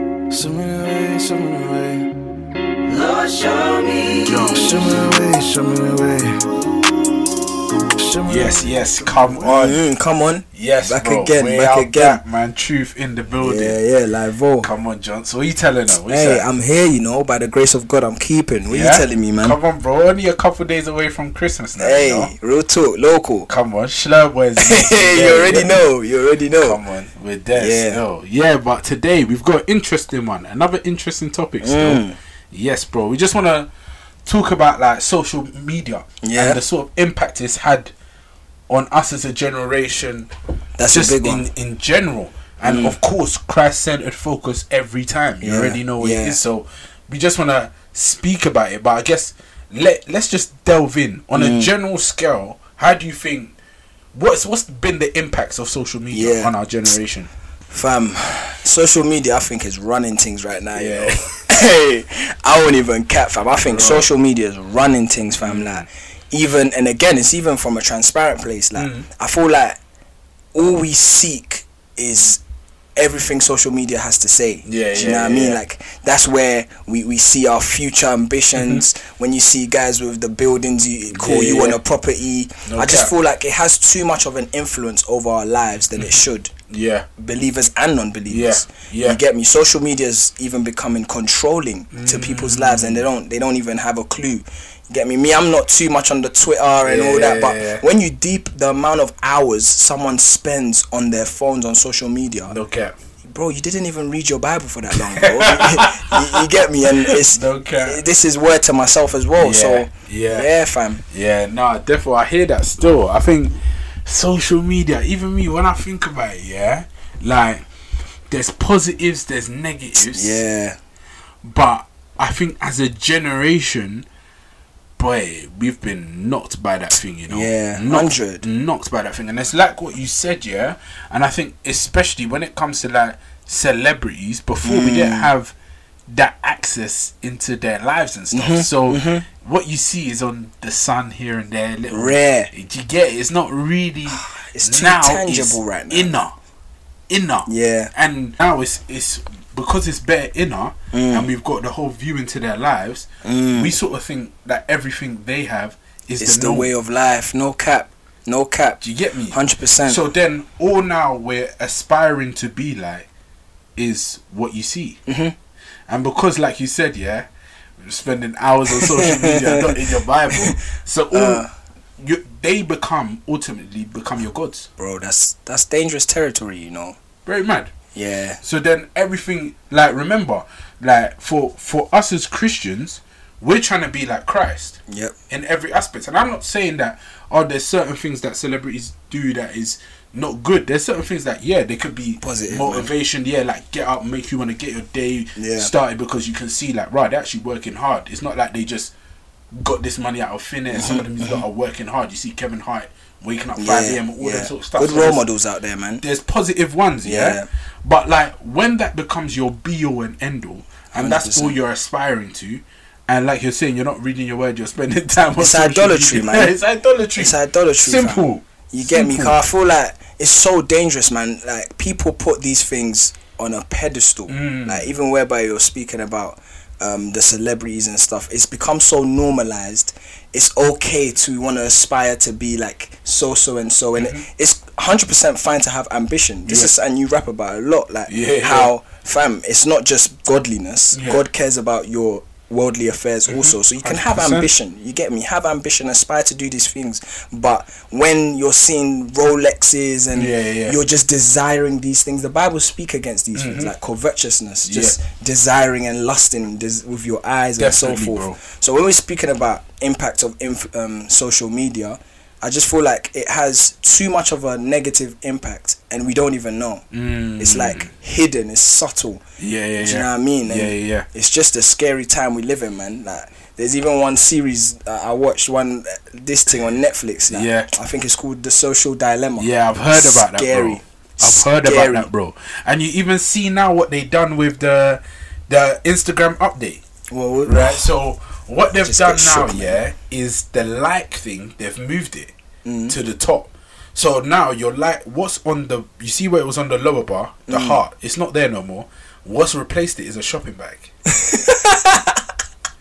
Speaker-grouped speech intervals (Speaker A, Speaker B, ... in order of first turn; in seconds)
Speaker A: 0.3-2.2, 2.9-6.5, 7.9-9.3
Speaker B: 4.2-4.6, 8.3-9.8, 10.5-13.8, 14.6-16.4, 18.7-22.3, 23.5-25.8, 26.6-33.7, 34.3-37.9, 38.7-40.3, 40.9-53.5, 54.1-57.3, 60.8-61.2, 63.6-64.1, 65.4-65.9, 68.8-69.0, 74.6-75.6, 78.6-78.8, 81.1-81.8, 82.7-83.1, 86.7-87.1, 88.3-89.2, 91.9-93.1, 96.8-97.8, 102.5-102.9, 104.9-108.0, 109.4-110.5, 111.1-117.7, 118.3-120.4, 121.4-124.1, 125.0-135.5, 136.1-146.3, 147.1-156.7, 158.8-163.1, 163.8-165.0, 165.9-167.3, 167.8-171.4, 172.0-174.7, 177.2-177.7, 178.4-184.8, 185.3-198.9, 199.5-205.2, 206.0-219.4, 224.3-224.9, 234.0-234.2, 236.4-236.7, 238.1-238.7, 240.9-241.2, 243.3-244.5, 250.1-250.8, 253.3-253.7, 254.6-255.0, 257.6-258.4, 266.9-267.9, 269.4-271.1, 277.3-277.7, 279.4-286.8, 287.4-292.3, 292.9-300.9
Speaker C: 9.4-12.2, 13.4-14.7, 16.1-19.6, 21.8-23.5, 24.6-26.8, 27.5-28.0, 31.6-32.2, 36.2-36.6, 40.8-41.5, 42.6-43.0, 45.4-46.4, 51.3-51.7, 56.1-56.5, 57.7-69.8, 70.5-72.4, 73.0-86.5, 87.2-102.6, 103.3-111.0, 120.0-120.8, 127.3-128.4, 134.6-135.3, 138.3-139.2, 141.9-142.5, 144.1-146.1, 147.4-147.9, 150.9-151.3, 153.2-153.7, 156.2-160.0, 165.1-165.3, 168.7-170.6, 171.1-171.5, 174.8-176.9, 177.9-178.4, 184.9-185.1, 192.2-192.9, 195.3-195.7, 200.7-201.4, 203.6-206.0, 207.0-207.5, 210.9-211.6, 215.4-216.5, 217.2-266.8, 267.4-269.2, 269.8-282.1, 287.1-287.9, 288.8-289.8, 292.6-292.9, 297.5-297.8, 301.1-302.2